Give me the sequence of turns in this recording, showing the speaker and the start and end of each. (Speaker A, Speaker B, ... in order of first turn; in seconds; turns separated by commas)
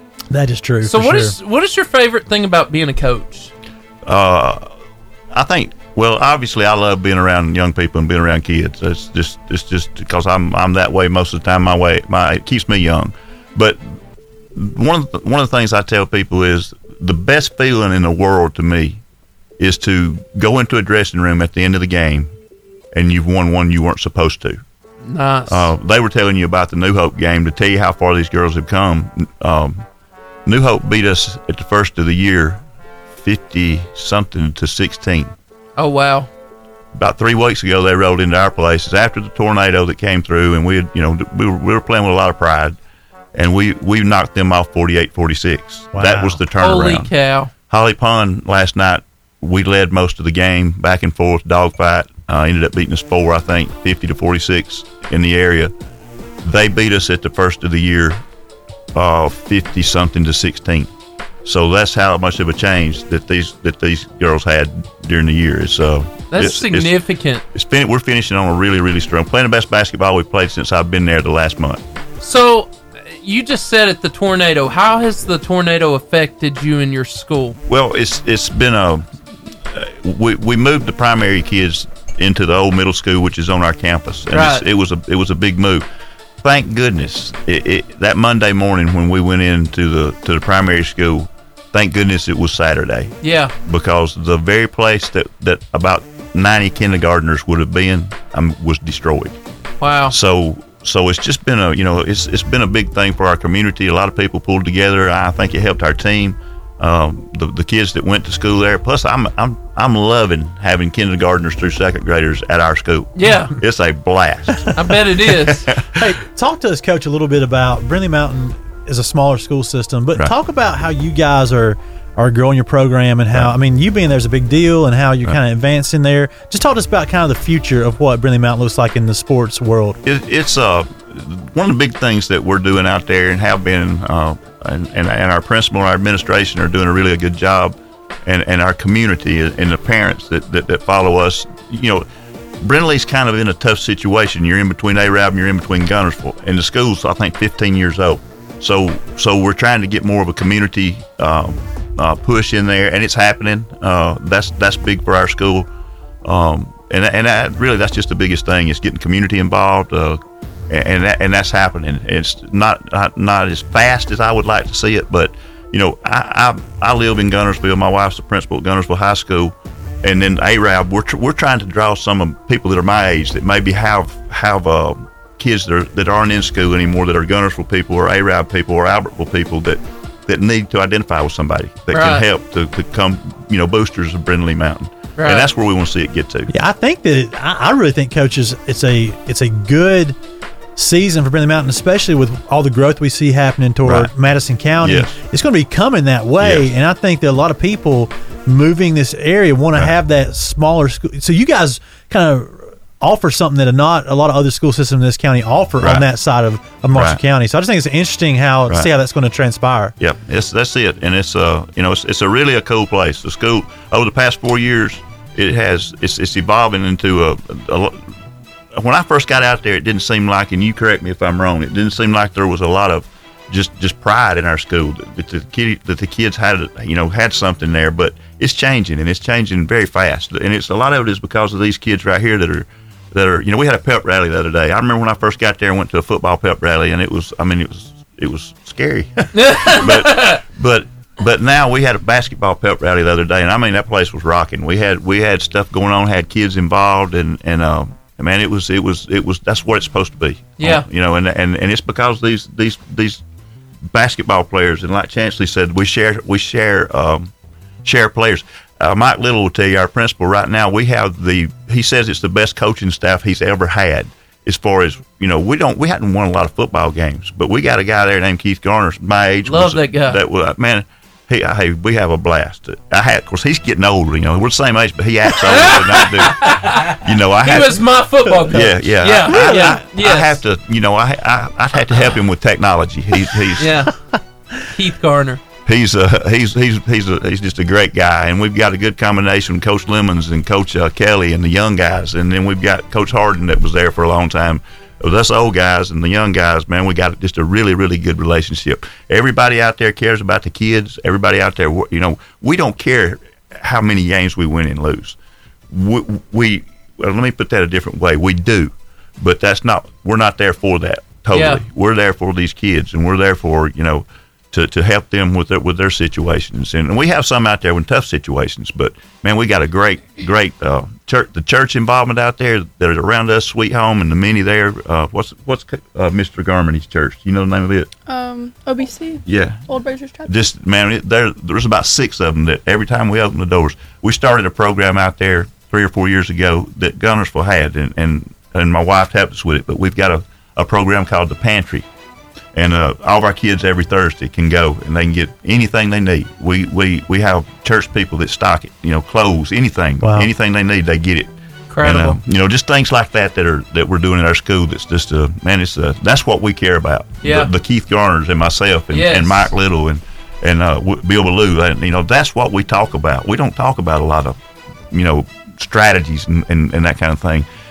Speaker A: 0.3-1.3, Speaker B: 0.8-3.5, Speaker C: 4.0-4.7, Speaker C: 5.3-13.8, Speaker C: 14.5-19.0, Speaker C: 19.6-22.3, Speaker C: 22.9-24.6, Speaker B: 25.0-25.7, Speaker C: 25.5-29.8, Speaker C: 30.4-32.6, Speaker C: 33.1-35.3, Speaker B: 35.8-36.3, Speaker C: 37.0-42.8, Speaker C: 43.4-47.1, Speaker A: 45.9-46.4, Speaker B: 46.6-47.5, Speaker C: 47.7-55.7, Speaker C: 56.4-58.2, Speaker C: 58.9-60.9, Speaker C: 61.4-66.9, Speaker B: 66.3-67.4, Speaker C: 67.5-71.8, Speaker B: 72.2-77.6, Speaker C: 77.7-79.1, Speaker C: 79.7-85.8, Speaker B: 84.3-84.7, Speaker C: 86.4-99.4, Speaker B: 93.2-93.5, Speaker B: 99.8-100.2, Speaker C: 100.1-114.7, Speaker B: 113.1-113.5, Speaker B: 114.7-115.7, Speaker C: 115.5-116.0, Speaker A: 116.0-130.0, Speaker C: 130.0-142.0, Speaker C: 142.6-155.7, Speaker C: 156.2-186.5, Speaker B: 181.9-182.2, Speaker B: 185.2-185.5, Speaker A: 186.5-190.2, Speaker A: 190.8-209.9, Speaker C: 193.8-194.1, Speaker C: 194.8-195.1, Speaker C: 196.4-196.7, Speaker C: 205.8-206.1, Speaker C: 206.9-207.2, Speaker C: 210.0-218.0, Speaker C: 218.8-253.2, Speaker B: 239.3-240.4, Speaker B: 250.6-250.9, Speaker C: 253.9-257.3, Speaker C: 257.8-277.8, Speaker B: 269.4-270.2, Speaker B: 275.4-280.4, Speaker C: 278.5-283.7, Speaker A: 279.3-279.8, Speaker B: 283.6-283.9, Speaker B: 284.7-285.4, Speaker C: 285.6-305.2, Speaker C: 305.7-327.9, Speaker B: 311.3-311.6, Speaker D: 328.1-330.4, Speaker C: 329.2-329.6, Speaker C: 330.2-341.9, Speaker C: 342.5-364.4, Speaker A: 350.0-350.3, Speaker B: 351.7-352.2, Speaker B: 357.2-357.5, Speaker B: 358.9-359.5, Speaker C: 364.9-367.4